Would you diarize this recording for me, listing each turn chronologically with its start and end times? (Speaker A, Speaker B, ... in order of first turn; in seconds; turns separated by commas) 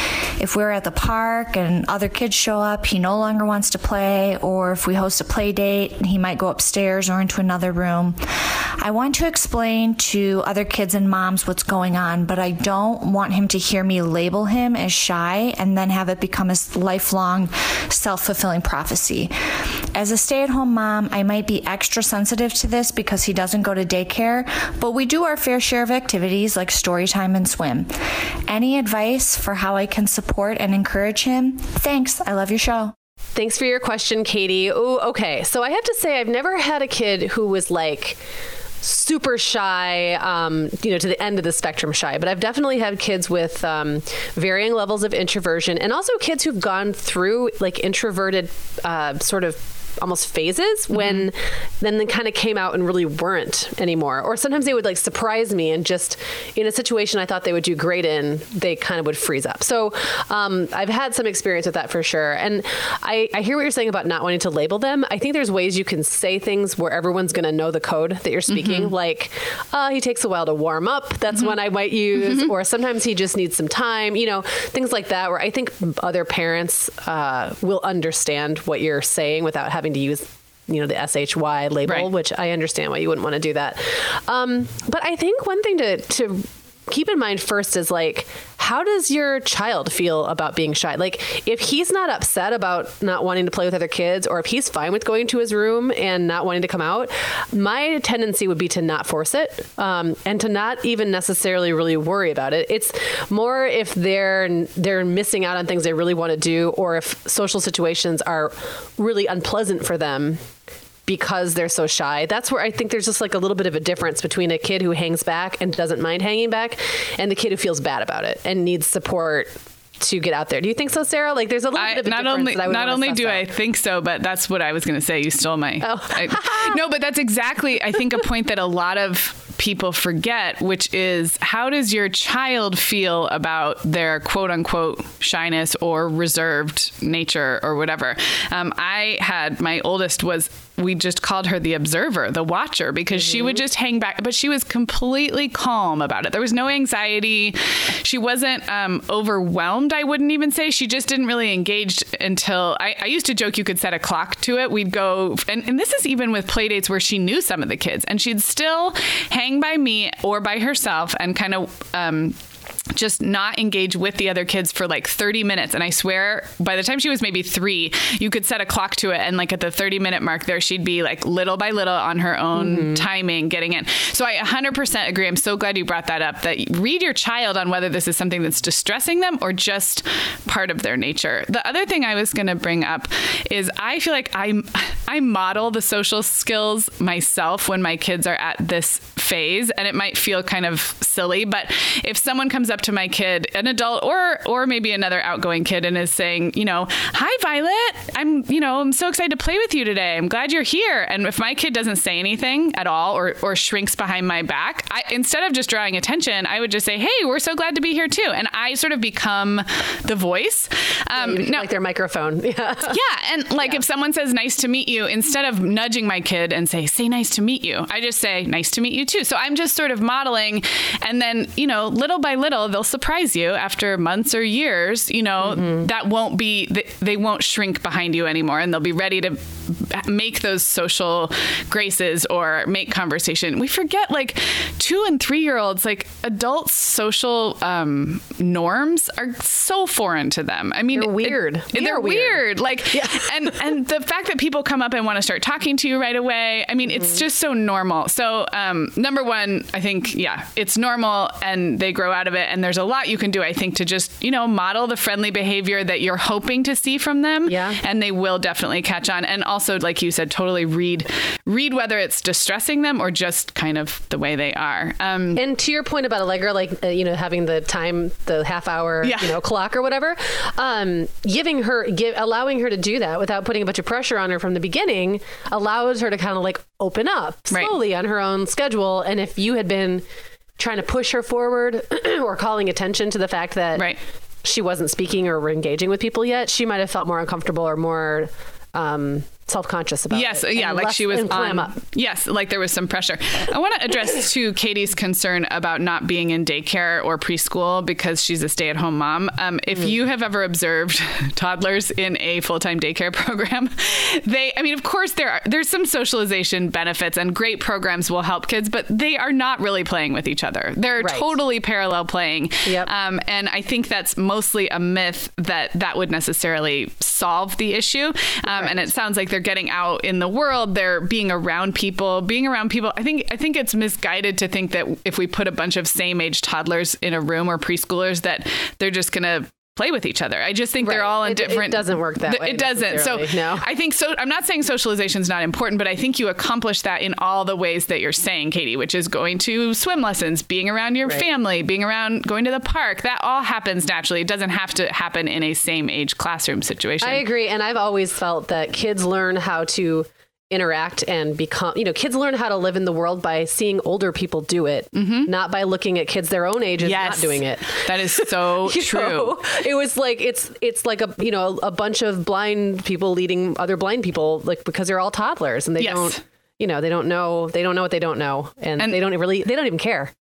Speaker A: 0.4-8.2, Speaker A: 8.8-19.3, Speaker A: 19.9-27.9, Speaker A: 28.5-32.9, Speaker B: 33.4-38.2, Speaker B: 38.8-110.4, Speaker C: 50.9-51.2, Speaker C: 68.5-68.9, Speaker C: 72.1-72.5, Speaker B: 111.1-123.5, Speaker C: 121.8-162.4, Speaker B: 125.8-126.8, Speaker B: 143.2-143.6, Speaker C: 162.9-211.7, Speaker B: 172.5-173.0, Speaker B: 211.1-213.0, Speaker C: 212.9-265.4, Speaker B: 225.4-225.8, Speaker B: 240.9-243.5, Speaker B: 246.9-247.2, Speaker B: 257.5-257.8, Speaker B: 265.4-280.1, Speaker C: 269.0-269.4, Speaker B: 280.6-283.9, Speaker B: 284.4-291.8, Speaker C: 290.1-347.2, Speaker B: 311.0-311.4, Speaker B: 318.5-318.8, Speaker B: 330.8-333.6, Speaker B: 347.0-370.1, Speaker C: 354.9-355.3, Speaker C: 356.8-359.4, Speaker C: 365.8-366.2